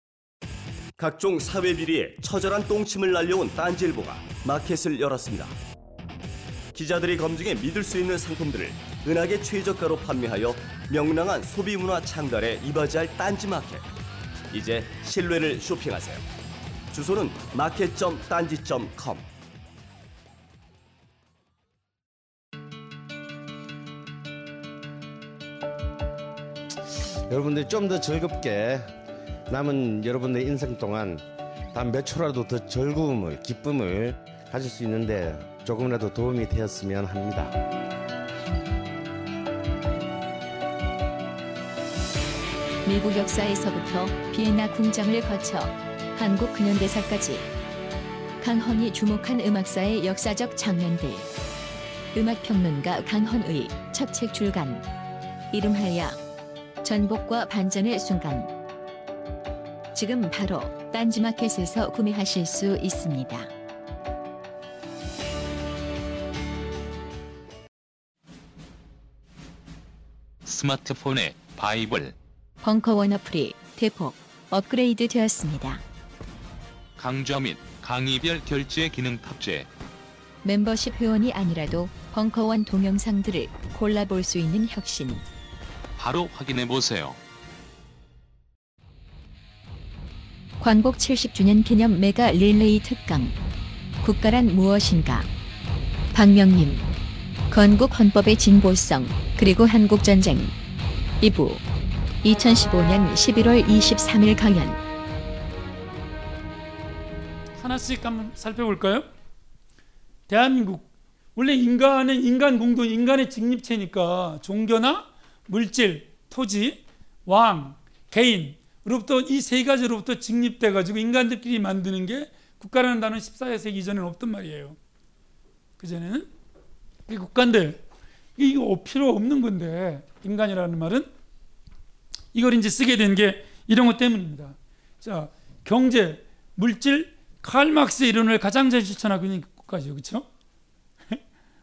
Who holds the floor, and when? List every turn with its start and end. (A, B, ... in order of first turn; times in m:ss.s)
0:01.0-0:05.5 A
0:06.7-0:13.9 A
0:14.5-0:16.2 A
0:16.9-0:19.3 A
0:27.3-0:28.9 B
0:29.5-0:37.7 B
0:42.8-0:47.5 C
0:48.4-0:51.3 C
0:52.1-0:54.9 C
0:55.5-0:56.2 C
0:56.8-0:58.5 C
0:59.9-1:03.5 C
1:10.4-1:12.1 D
1:12.6-1:15.8 C
1:17.0-1:19.7 D
1:20.4-1:25.2 C
1:26.0-1:27.2 D
1:30.6-1:33.4 C
1:34.0-1:35.3 C
1:36.1-1:36.9 C
1:37.5-1:40.5 C
1:41.2-1:41.6 C
1:42.2-1:44.8 C
1:47.6-1:49.1 E
1:50.3-2:04.8 E
2:05.8-2:06.3 E
2:07.1-2:07.8 E
2:08.4-2:11.1 E
2:12.3-2:20.2 E